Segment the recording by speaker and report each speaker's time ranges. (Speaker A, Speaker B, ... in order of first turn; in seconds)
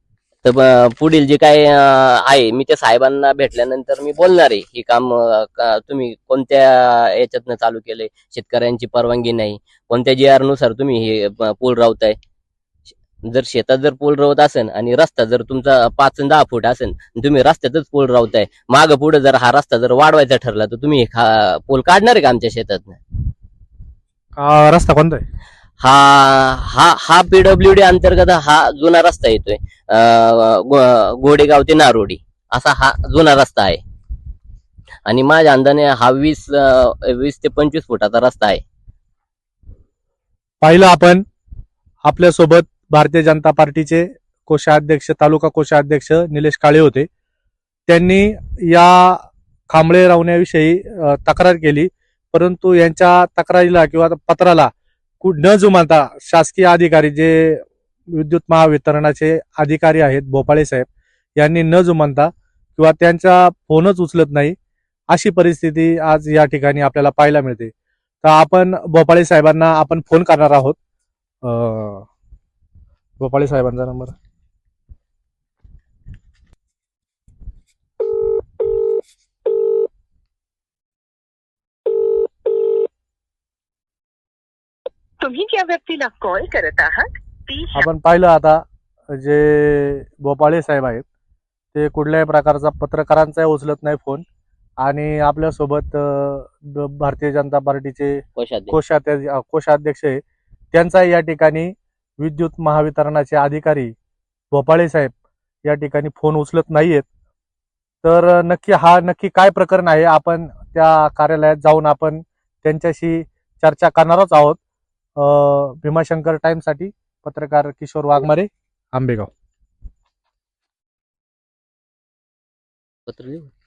Speaker A: 0.4-12.2, 13.3-23.0, 25.8-33.8, 35.0-38.6, 98.4-98.8, 123.1-123.5
Speaker B: 24.4-25.2, 40.6-41.2, 42.0-47.1, 47.9-64.5, 65.1-70.8, 71.4-72.1, 73.2-74.1, 87.7-88.6, 89.1-91.0, 91.7-94.2, 94.8-100.2, 100.7-103.9, 104.5-105.1, 105.6-107.0, 108.0-114.6, 115.2-119.3
Speaker C: 85.2-87.8